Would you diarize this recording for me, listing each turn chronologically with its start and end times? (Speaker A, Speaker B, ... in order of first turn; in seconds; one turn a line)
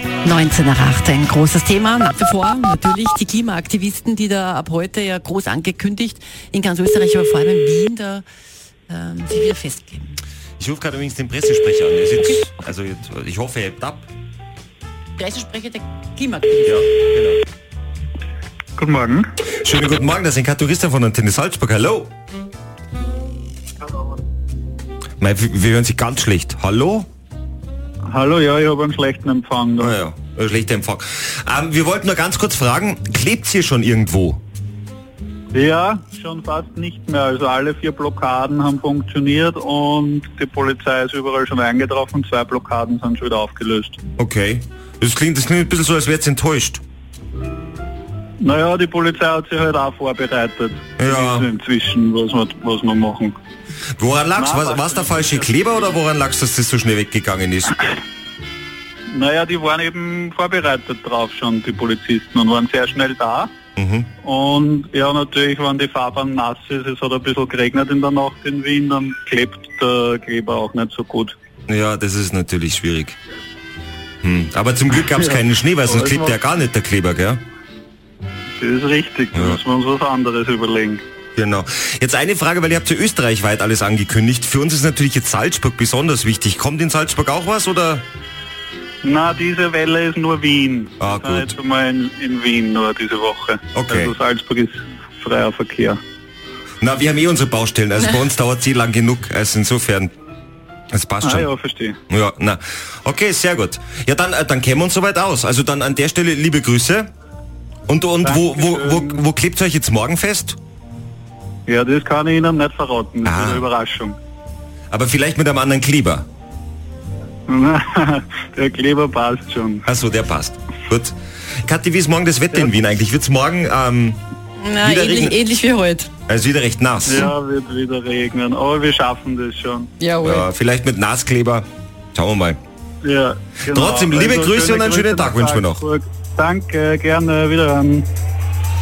Speaker A: 0.2-8.2
Speaker A: 8.9-10.1
Speaker B: 10.6-14.1
Speaker A: 15.2-16.9
Speaker B: 16.7-17.4
Speaker C: 18.8-19.3
Speaker B: 19.6-22.1
Speaker B: 25.2-27.1
Speaker C: 28.1-29.9
Speaker B: 29.8-34.4
Speaker C: 35.5-44.0
Speaker B: 44.2-46.8
Speaker C: 48.4-53.4
Speaker B: 51.0-51.5
Speaker B: 54.0-57.8
Speaker C: 54.4-55.5
Speaker C: 59.1-63.5
Speaker B: 63.8-64.1
Speaker C: 64.2-71.3
Speaker B: 71.7-73.2
Speaker B: 74.2-77.4
Speaker C: 75.9-76.4
Speaker C: 78.6-81.0
Speaker B: 79.3-79.6
Speaker B: 81.4-88.0
Speaker C: 89.0-96.0
Speaker B: 91.0-91.5
Speaker B: 93.8-94.1
Speaker B: 96.8-100.1
Speaker B: 100.9-101.5
Speaker C: 101.2-102.0
Speaker B: 102.1-107.1
Speaker B: 107.9-110.6
Speaker C: 108.2-109.2
Speaker C: 111.7-114.2
Speaker B: 113.2-113.7
Speaker B: 114.9-116.3
Speaker C: 117.5-119.9
Speaker B: 119.9-124.2
Speaker A: 124.6-126.1
Speaker B: 124.8-125.4
Speaker B: 126.3-127.3
Speaker C: 127.1-129.9
Speaker A: 130.0-130.5
Speaker B: 130.2-132.6
Speaker C: 133.0-138.1
Speaker B: 133.7-135.8